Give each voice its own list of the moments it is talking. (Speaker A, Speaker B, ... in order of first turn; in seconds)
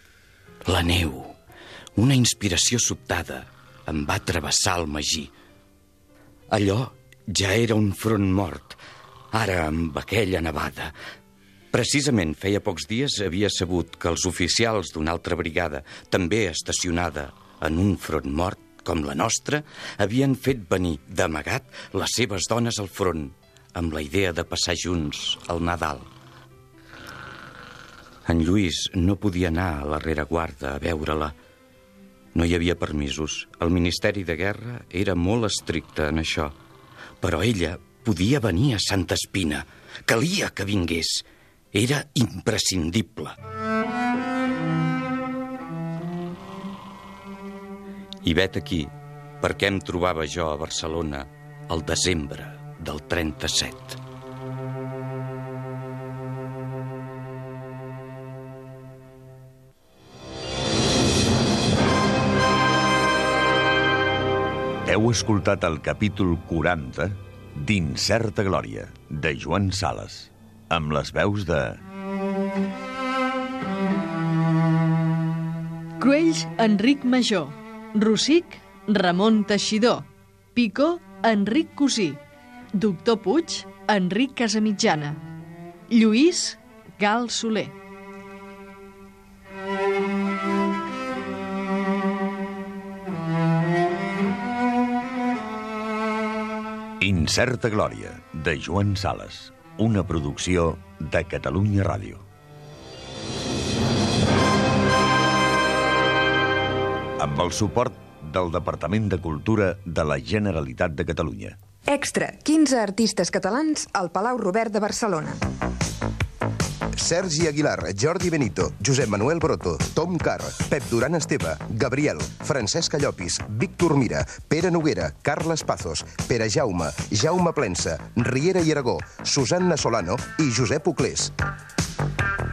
Speaker A: 0.7-1.4, 2.0-5.3, 6.5-8.8, 9.3-10.9, 11.7-26.1, 28.3-31.4, 32.4-36.6, 37.2-43.4, 48.2-54.0
Speaker B: 64.8-71.8, 97.0-102.2, 107.2-111.6
Speaker C: 76.0-82.2, 82.8-85.2, 85.9-87.8
Speaker D: 111.9-115.4
Speaker E: 117.0-131.3